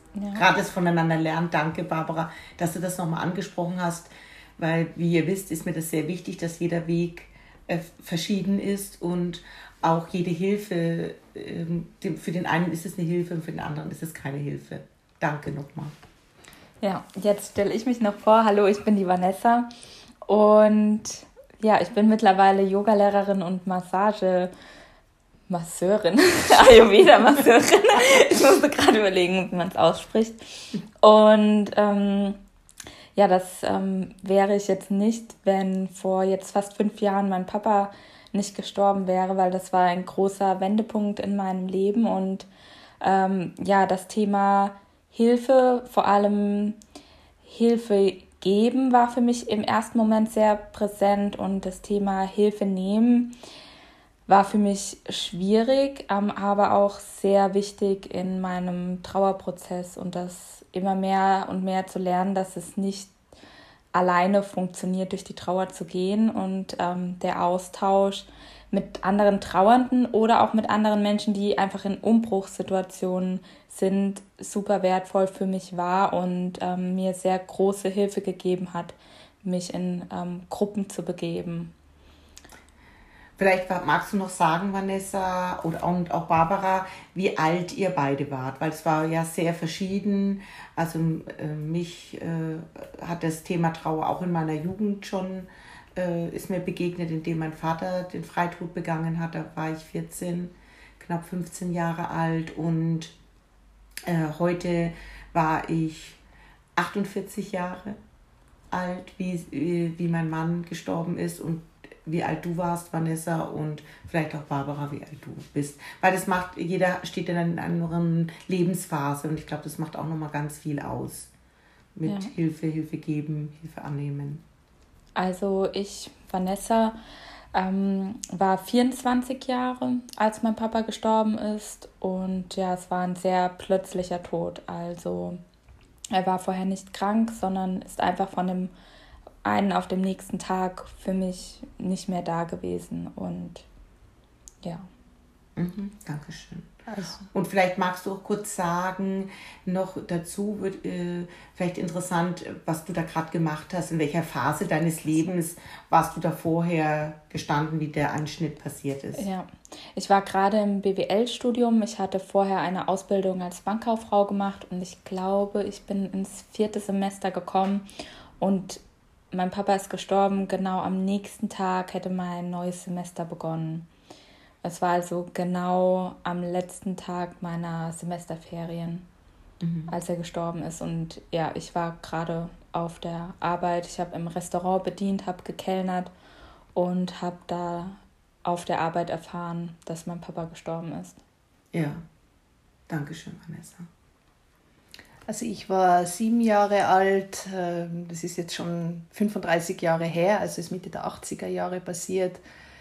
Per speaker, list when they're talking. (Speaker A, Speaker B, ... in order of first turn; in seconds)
Speaker A: 0.1-0.4, 16.8-19.7, 20.2-24.5, 25.5-30.4, 31.0-32.4, 33.1-42.5, 43.0-46.8, 47.4-53.3, 54.3-63.1, 63.9-81.7, 122.0-122.3, 125.1-127.0, 127.5-135.4, 136.1-138.7, 139.4-143.6, 144.6-144.9, 159.2-167.8, 168.4-168.8, 169.3-173.8, 174.6-179.0, 179.9-186.1, 186.7-191.2
Speaker B: 0.3-15.9, 83.4-103.1, 104.1-106.2, 106.8-108.0, 108.7-121.3, 122.0-124.4, 145.6-146.7, 147.3-159.2, 179.6-179.9, 191.7-192.0, 192.9-193.9
Speaker C: 146.9-147.2, 195.3-202.4